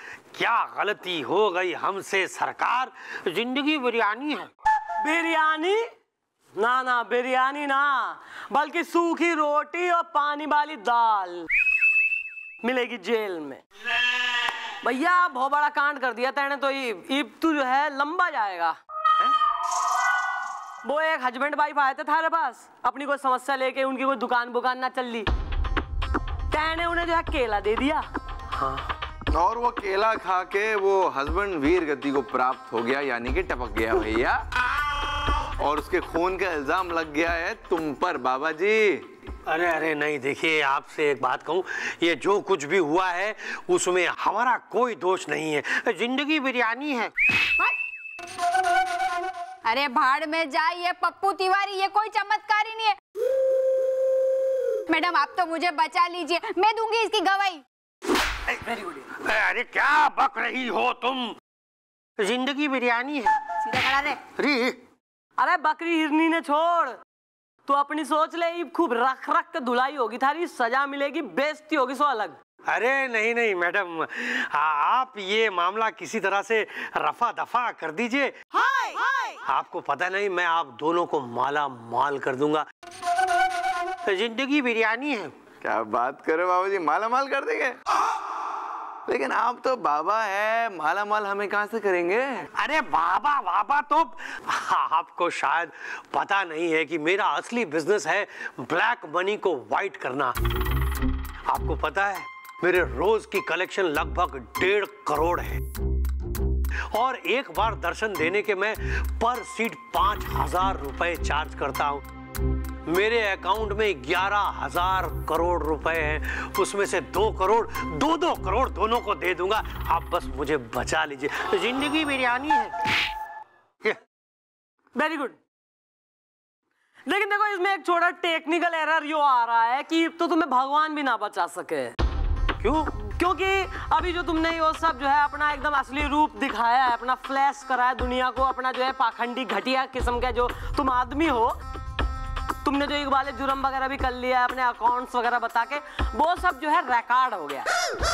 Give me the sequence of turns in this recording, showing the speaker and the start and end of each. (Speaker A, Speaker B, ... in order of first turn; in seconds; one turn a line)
Speaker A: 0.3-4.5
Speaker B: 5.0-5.8
Speaker B: 6.5-11.5
Speaker B: 12.6-13.6
Speaker B: 14.8-18.8
Speaker B: 20.8-25.3
Speaker B: 26.5-28.0
Speaker A: 28.5-28.9
Speaker C: 29.3-34.4
Speaker C: 35.6-39.0
Speaker A: 39.5-47.1
Speaker D: 49.6-52.9
Speaker D: 54.9-57.6
Speaker A: 58.5-61.4
Speaker A: 62.2-64.8
Speaker B: 65.4-67.0
Speaker B: 67.6-72.4
Speaker A: 72.7-82.7
Speaker A: 84.0-85.3
Speaker C: 85.6-87.8
Speaker C: 89.1-92.4
Speaker A: 92.6-100.3
Speaker A: 101.5-105.6
Speaker A: 106.9-112.0
Speaker A: 112.8-122.7
Speaker B: 125.0-125.4
Speaker B: 127.1-131.9
Speaker A: 132.6-132.9
Speaker B: 133.1-141.5
Speaker B: 142.6-147.7